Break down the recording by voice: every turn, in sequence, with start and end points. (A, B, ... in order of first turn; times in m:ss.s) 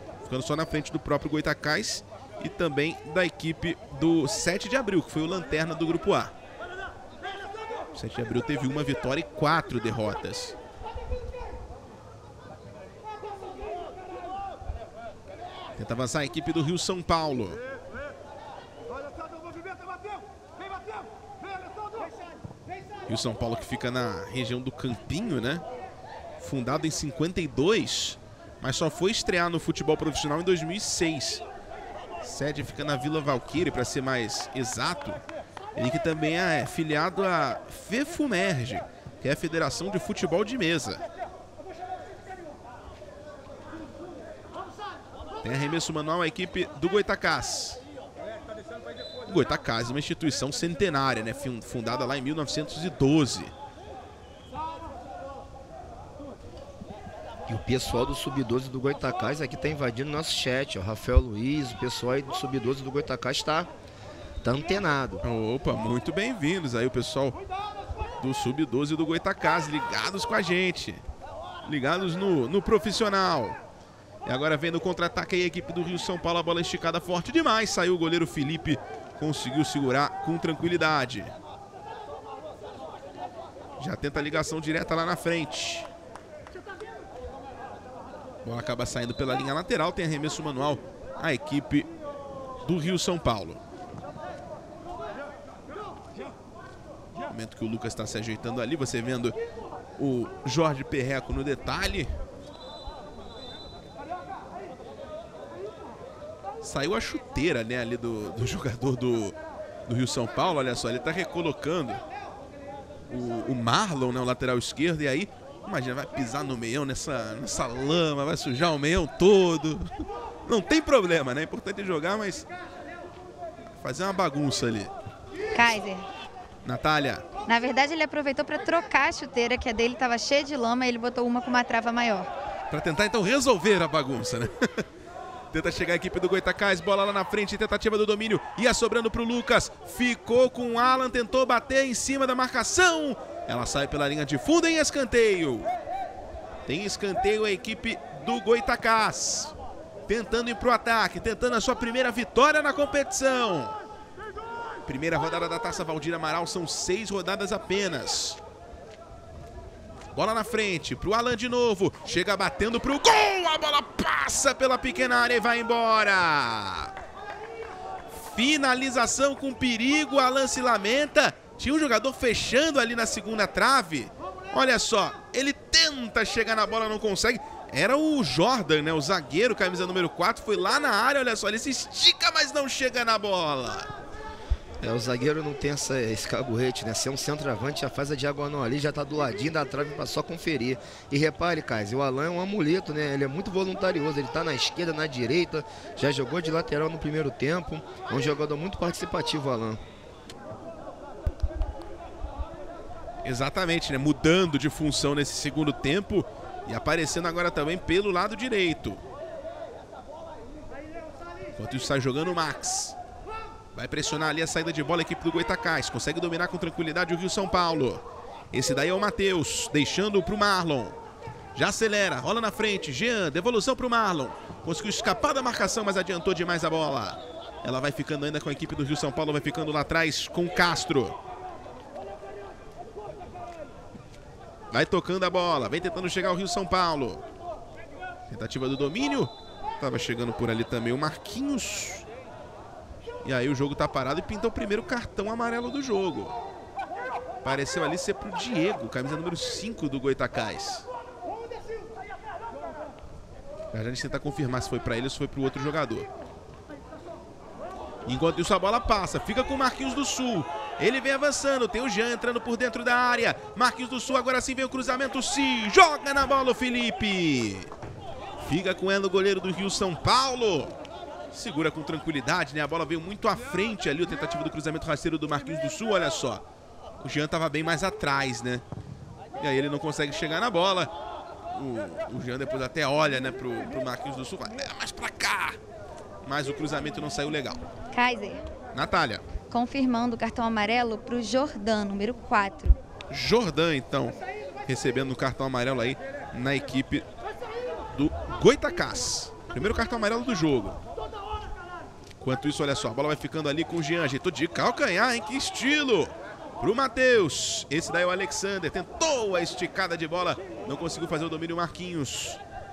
0:00.2-0:06.3 A
0:07.9-0:10.6 A
0:15.8-0:17.6 A
0:23.1-0:25.6 A
0:26.4-0:31.4 A
0:32.2-0:35.2 A
0:35.8-0:41.0 A
0:45.4-0:47.8 A
0:49.3-0:53.5 A
0:57.5-1:03.7 B
1:04.4-1:05.2 B
1:05.2-1:07.4 A
1:08.2-1:11.0 A
1:11.6-1:13.6 A
1:14.2-1:21.3 A
1:23.8-1:25.9 A
1:28.4-1:31.9 A
1:32.6-1:33.6 A
1:37.3-1:39.4 A
1:40.0-1:42.1 A
1:46.6-1:52.0 A
1:53.1-1:59.9 A
2:00.4-2:02.5 A
2:03.8-2:04.9 A
2:05.6-2:06.0 C
2:06.6-2:07.3 A
2:07.5-2:12.3 C
2:12.7-2:14.8 A
2:15.5-2:25.7 A
2:26.7-2:29.5 A
2:30.1-2:33.8 A
2:34.8-2:38.4 A
2:40.1-2:46.9 A
2:48.1-3:03.9 A
3:04.8-3:19.8 B
3:23.2-3:29.0 A
3:31.6-3:33.0 A
3:33.7-3:41.0 A
3:41.6-3:51.2 A
3:54.7-3:57.2 A
3:58.3-4:02.1 A
4:03.2-4:06.4 A
4:07.4-4:10.8 A
4:13.7-4:16.1 A
4:18.1-4:27.7 A
4:28.4-4:30.8 A
4:31.3-4:36.4 A
4:37.0-4:38.6 A
4:39.4-4:40.9 A
4:41.5-4:45.6 A
4:46.2-4:47.6 A
4:47.9-4:48.4 C
4:48.7-4:49.2 A
4:49.5-4:52.8 C
4:53.1-4:57.1 A
4:57.9-5:00.8 A
5:02.2-5:12.4 A